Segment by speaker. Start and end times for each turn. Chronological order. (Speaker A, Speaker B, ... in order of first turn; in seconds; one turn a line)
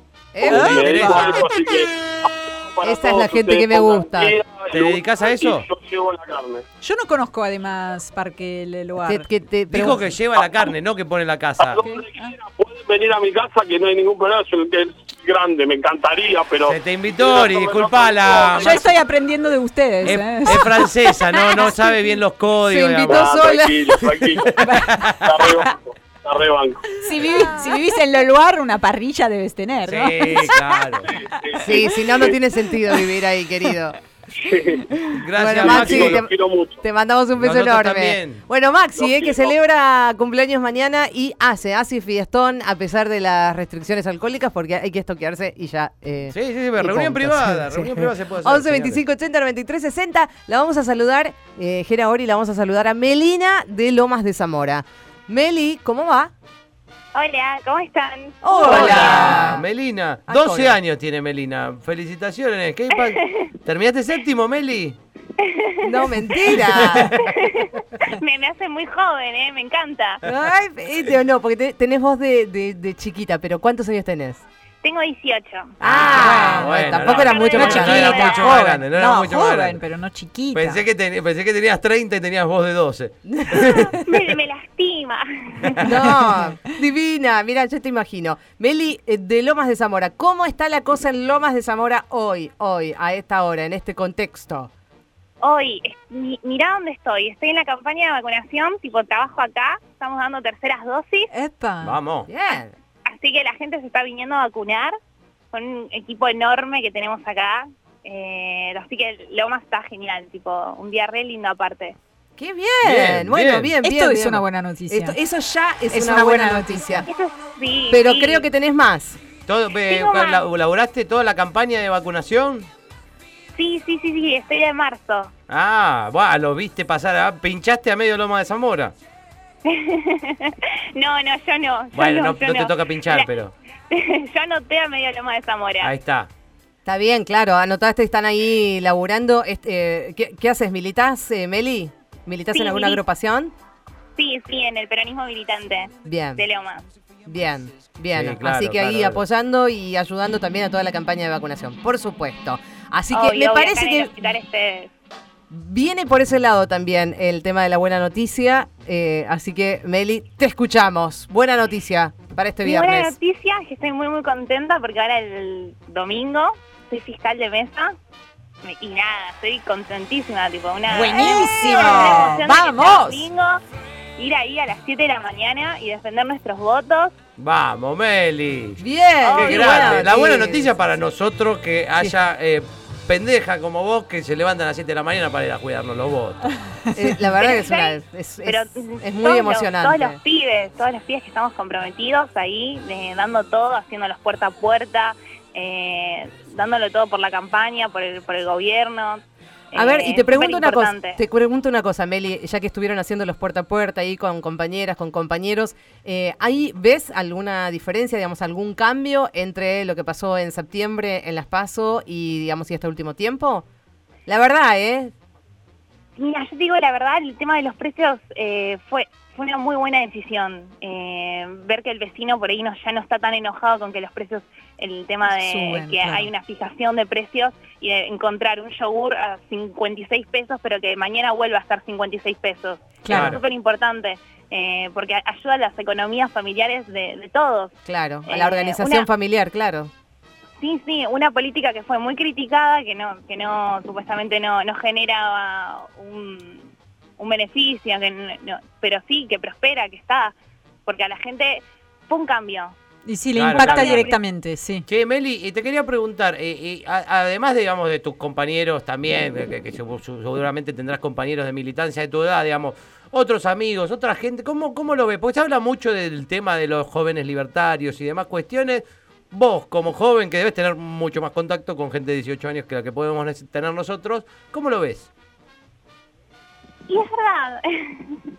Speaker A: 0.3-1.4
Speaker B: 0.4-6.6
Speaker C: 0.5-1.3
Speaker D: 0.5-1.4
Speaker A: 2.8-4.4
Speaker D: 4.7-5.6
Speaker C: 6.8-9.3
Speaker A: 9.0-10.0
Speaker D: 9.7-11.8
Speaker B: 11.6-18.9
Speaker C: 11.8-12.3
Speaker D: 16.6-18.8
Speaker C: 18.5-22.1
Speaker D: 20.0-23.4
Speaker A: 22.6-24.3
Speaker B: 23.0-24.6
Speaker C: 24.6-25.1
Speaker D: 24.8-25.3
Speaker B: 25.2-26.9
Speaker C: 26.9-33.1
Speaker D: 29.9-31.1
Speaker B: 31.1-31.9
Speaker A: 31.6-34.0
Speaker B: 34.4-34.9
Speaker D: 35.2-36.2
Speaker A: 35.3-56.3
Speaker B: 35.4-36.8
Speaker D: 37.4-38.4
Speaker B: 39.0-39.5
Speaker D: 46.3-49.0
Speaker E: 57.1-59.4
Speaker A: 58.4-59.6
Speaker D: 58.6-65.0
Speaker A: 60.3-60.8
Speaker E: 62.9-63.5
Speaker E: 65.4-66.1
Speaker A: 65.8-67.2
Speaker D: 66.7-67.2
Speaker E: 67.2-70.2
Speaker A: 70.2-74.4
Speaker E: 74.8-75.7
Speaker A: 75.8-78.5
Speaker D: 75.8-79.8
Speaker C: 76.0-80.8
Speaker E: 77.1-78.6
Speaker D: 80.5-84.0
Speaker A: 83.3-83.9
Speaker E: 83.9-85.9
Speaker A: 85.8-94.7
Speaker E: 95.4-101.3
Speaker C: 101.3-102.0
Speaker D: 101.8-102.3
Speaker A: 102.3-102.7
Speaker E: 102.5-104.9
Speaker E: 105.5-112.0
Speaker A: 112.4-117.0
Speaker D: 112.8-113.7
Speaker C: 113.8-115.2
Speaker C: 115.9-117.0
Speaker E: 117.1-118.5
Speaker A: 117.9-119.2
Speaker D: 119.5-122.7
Speaker E: 119.8-120.4
Speaker E: 123.5-125.3
Speaker D: 125.5-128.9
Speaker E: 129.6-133.3
Speaker D: 131.9-133.5
Speaker E: 133.9-135.9
Speaker D: 135.8-136.3
Speaker A: 136.8-143.5
Speaker E: 142.5-143.0
Speaker E: 144.2-146.8
Speaker A: 146.0-146.4
Speaker A: 147.2-154.1
Speaker D: 148.1-149.2
Speaker E: 153.1-154.9
Speaker A: 155.5-163.1
Speaker E: 162.6-167.9
Speaker E: 168.6-173.6
Speaker C: 170.9-173.3
Speaker E: 174.2-177.2
Speaker D: 177.4-178.8
Speaker A: 178.8-180.7
Speaker E: 179.2-180.0
Speaker D: 179.3-186.4
Speaker A: 186.9-190.2
Speaker E: 187.4-201.2
Speaker A: 199.7-213.6
Speaker A: 214.3-215.1
Speaker E: 216.2-237.7
Speaker C: 225.2-226.3
Speaker C: 233.0-233.4
Speaker D: 233.1-233.4
Speaker A: 237.9-239.9
Speaker E: 238.2-239.1
Speaker E: 240.6-250.3
Speaker E: 250.8-252.7
Speaker C: 253.1-254.8
Speaker D: 253.3-254.1
Speaker E: 253.5-254.2
Speaker D: 254.9-275.1
Speaker E: 276.9-278.2